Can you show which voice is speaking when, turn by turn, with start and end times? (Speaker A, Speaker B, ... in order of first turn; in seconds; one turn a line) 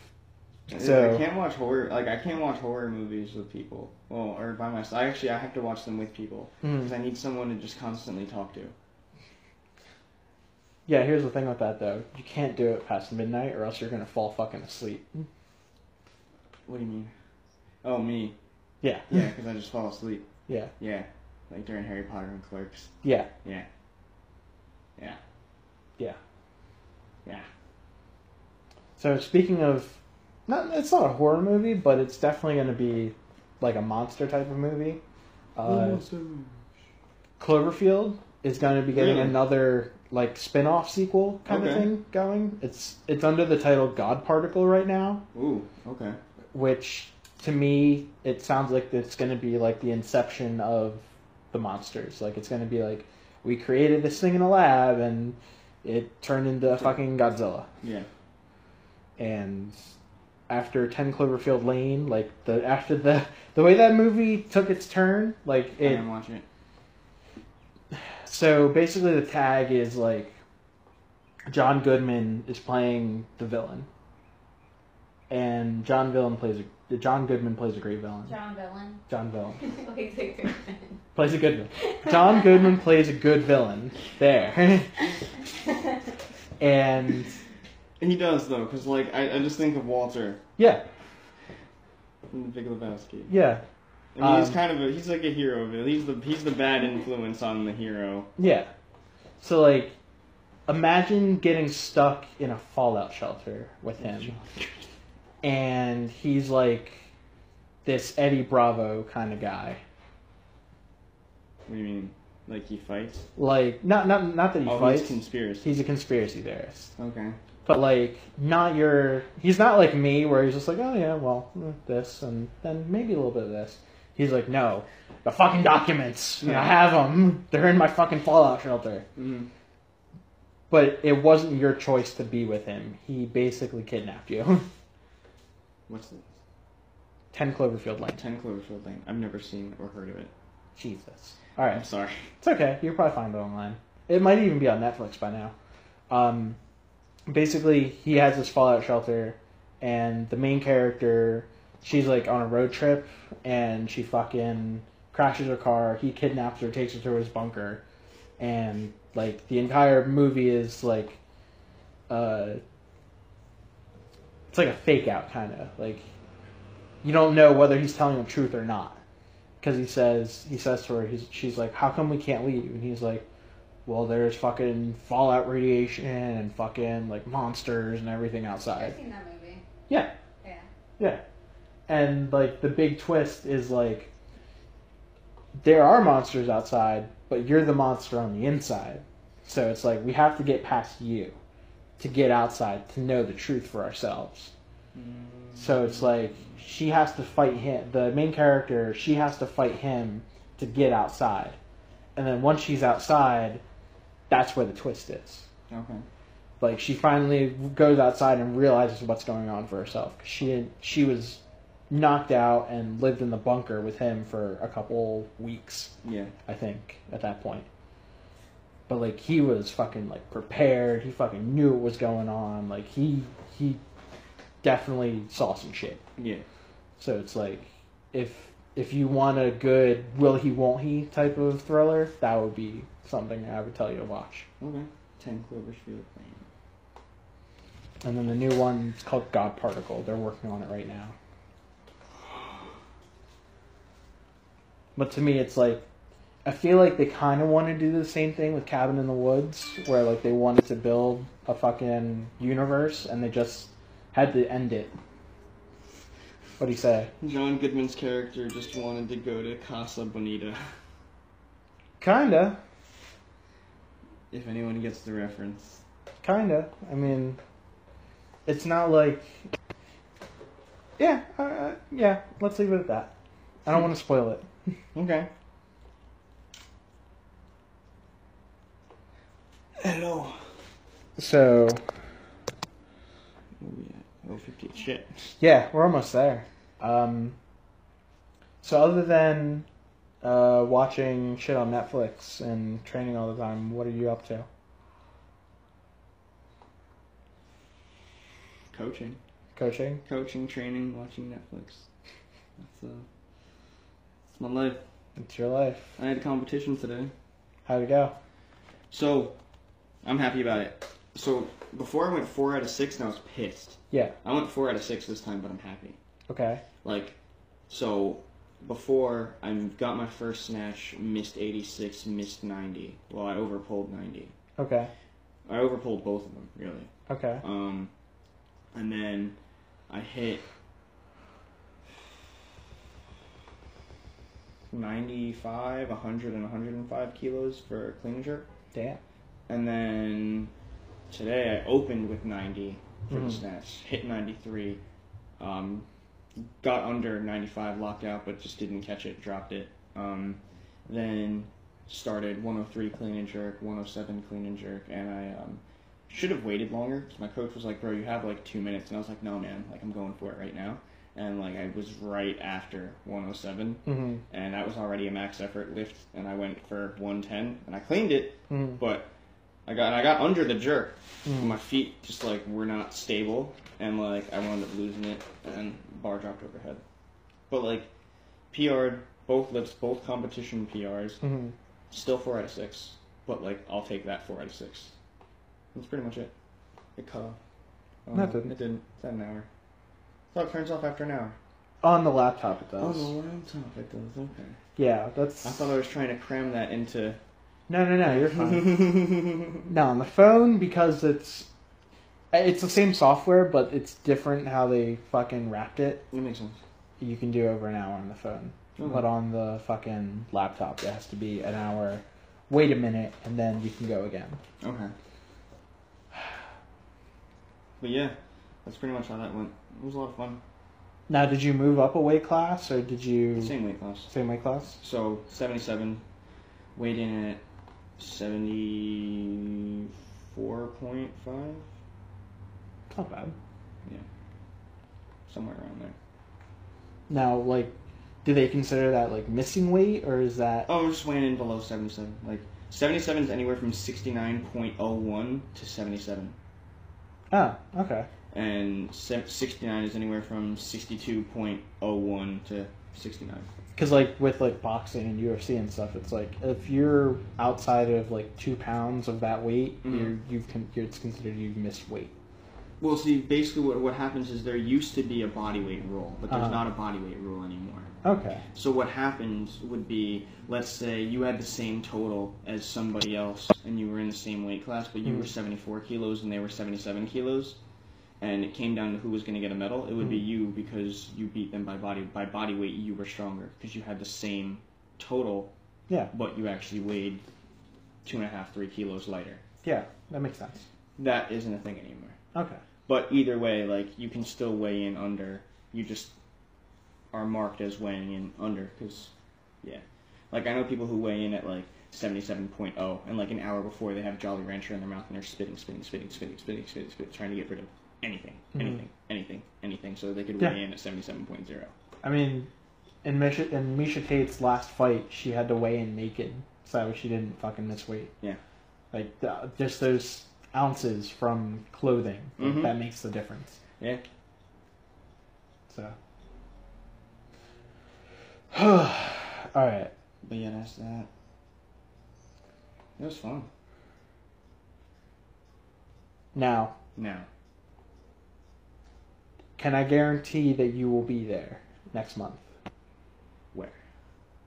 Speaker A: 0.7-8.7
Speaker B: 0.7-1.2
Speaker B: 6.6-6.9
Speaker B: 10.9-15.3
Speaker A: 16.6-17.1
Speaker A: 17.8-18.3
Speaker B: 18.8-19.2
Speaker A: 19.1-20.3
Speaker A: 20.8-22.9
Speaker B: 23.0-23.3
Speaker B: 29.0-35.0
Speaker B: 35.5-36.0
Speaker A: 35.6-36.5
Speaker B: 37.4-45.2
Speaker A: 38.9-39.4
Speaker A: 41.5-41.9
Speaker A: 45.3-46.2
Speaker B: 46.5-57.7
Speaker A: 56.7-57.0
Speaker A: 57.8-58.1
Speaker B: 59.2-59.8
Speaker B: 60.5-66.0
Speaker A: 65.8-66.5
Speaker B: 67.9-70.4
Speaker B: 71.5-73.9
Speaker B: 75.3-78.3
Speaker C: 78.2-79.0
Speaker B: 79.1-79.6
Speaker C: 79.6-80.9
Speaker B: 81.1-85.0
Speaker C: 81.9-82.3
Speaker B: 86.6-87.3
Speaker A: 88.0-90.4
Speaker B: 90.6-90.8
Speaker A: 92.3-93.3
Speaker B: 93.3-93.6
Speaker A: 94.2-98.3
Speaker B: 94.2-94.6
Speaker B: 98.4-98.7
Speaker B: 99.4-99.9
Speaker B: 100.7-104.3
Speaker A: 104.0-104.8
Speaker B: 105.4-107.0
Speaker B: 107.8-109.8
Speaker A: 111.7-113.2
Speaker B: 113.3-116.9
Speaker A: 114.6-115.7
Speaker A: 117.0-117.4
Speaker B: 117.7-129.1
Speaker A: 126.4-126.7
Speaker A: 129.2-129.5
Speaker B: 130.7-134.7
Speaker A: 135.9-136.3
Speaker B: 137.3-138.2
Speaker A: 138.1-140.3
Speaker B: 140.8-141.8
Speaker A: 141.7-142.3
Speaker B: 142.4-145.5
Speaker B: 146.1-146.6
Speaker B: 147.3-157.8
Speaker B: 158.4-161.2
Speaker B: 162.1-162.6
Speaker B: 164.5-166.0
Speaker B: 167.0-169.0
Speaker B: 169.6-173.2
Speaker B: 173.8-178.9
Speaker C: 178.8-179.6
Speaker C: 180.4-180.7
Speaker B: 181.9-184.1
Speaker B: 185.6-191.4
Speaker B: 192.0-194.5
Speaker A: 194.9-196.2
Speaker B: 195.5-201.6
Speaker B: 202.1-203.6
Speaker B: 204.3-205.5
Speaker A: 205.7-206.1
Speaker B: 206.6-215.9
Speaker A: 216.0-216.3
Speaker B: 216.4-217.7
Speaker B: 218.9-223.8
Speaker B: 224.6-226.0
Speaker A: 226.2-226.4
Speaker B: 227.0-234.5
Speaker A: 234.6-236.5
Speaker B: 238.0-241.2
Speaker B: 244.9-245.8
Speaker B: 246.4-254.9
Speaker B: 256.6-257.1
Speaker A: 257.2-260.6
Speaker B: 262.0-262.6
Speaker A: 264.3-265.8
Speaker B: 266.2-267.4
Speaker B: 268.4-269.5
Speaker B: 271.0-273.1
Speaker B: 273.6-274.5
Speaker A: 274.9-275.3
Speaker A: 279.8-280.4
Speaker B: 281.2-281.8
Speaker A: 283.6-285.3
Speaker B: 285.4-287.4
Speaker B: 288.6-289.6
Speaker B: 290.2-294.5
Speaker A: 298.7-299.2
Speaker B: 299.5-300.0
Speaker A: 300.0-301.9
Speaker A: 302.6-303.1
Speaker A: 304.3-304.8
Speaker B: 305.2-305.9
Speaker A: 306.0-307.1
Speaker B: 307.6-308.1
Speaker A: 308.9-309.4
Speaker A: 310.0-316.0
Speaker B: 316.3-316.6
Speaker A: 316.8-317.2
Speaker A: 317.7-324.3
Speaker B: 324.6-324.9
Speaker A: 325.4-326.9
Speaker B: 327.1-327.4
Speaker A: 327.4-327.9
Speaker A: 328.7-329.4
Speaker A: 329.9-330.4
Speaker A: 334.7-338.5
Speaker B: 338.7-339.0
Speaker A: 339.5-340.5
Speaker A: 341.1-344.8
Speaker B: 343.1-343.4
Speaker A: 345.4-369.1
Speaker B: 363.8-364.2
Speaker B: 368.5-368.8
Speaker A: 369.6-376.8
Speaker B: 371.2-371.6
Speaker A: 377.5-377.9
Speaker A: 378.5-381.2
Speaker B: 381.2-381.5
Speaker A: 381.9-384.9
Speaker A: 385.7-386.3
Speaker A: 386.9-387.4
Speaker A: 388.1-389.5
Speaker B: 388.1-388.5
Speaker A: 390.3-391.4
Speaker B: 391.8-393.1
Speaker A: 392.8-394.6
Speaker B: 394.8-395.8
Speaker A: 395.4-397.2
Speaker B: 397.7-399.0
Speaker A: 398.0-399.6
Speaker B: 399.6-401.5
Speaker B: 402.3-406.1
Speaker A: 406.1-406.6
Speaker B: 407.0-414.4
Speaker A: 408.8-409.1
Speaker A: 414.6-414.9
Speaker A: 417.8-420.4
Speaker B: 421.1-423.5
Speaker A: 423.4-424.1
Speaker B: 424.1-424.8
Speaker A: 424.8-426.0
Speaker A: 426.7-427.4
Speaker A: 428.0-431.7
Speaker B: 432.9-433.4
Speaker A: 435.3-435.9
Speaker B: 437.1-440.7
Speaker A: 440.7-446.4
Speaker B: 447.3-448.1
Speaker A: 448.3-453.5
Speaker B: 453.8-462.1
Speaker A: 459.8-460.1
Speaker A: 462.8-467.9
Speaker B: 466.3-466.6
Speaker B: 468.0-468.4
Speaker A: 468.5-477.6
Speaker A: 478.2-485.5
Speaker A: 486.1-487.2
Speaker A: 488.0-489.4
Speaker B: 489.6-490.6
Speaker A: 491.0-492.2
Speaker B: 492.3-492.6
Speaker A: 492.9-496.1
Speaker A: 497.1-511.7
Speaker B: 508.6-508.8
Speaker B: 512.0-512.5
Speaker B: 513.0-518.1
Speaker B: 518.9-523.6
Speaker A: 522.4-522.7
Speaker B: 525.7-526.0
Speaker B: 528.5-529.9
Speaker A: 530.2-531.1
Speaker A: 533.0-533.5
Speaker B: 536.3-536.8
Speaker A: 537.0-537.3
Speaker B: 539.6-542.5
Speaker A: 543.5-543.8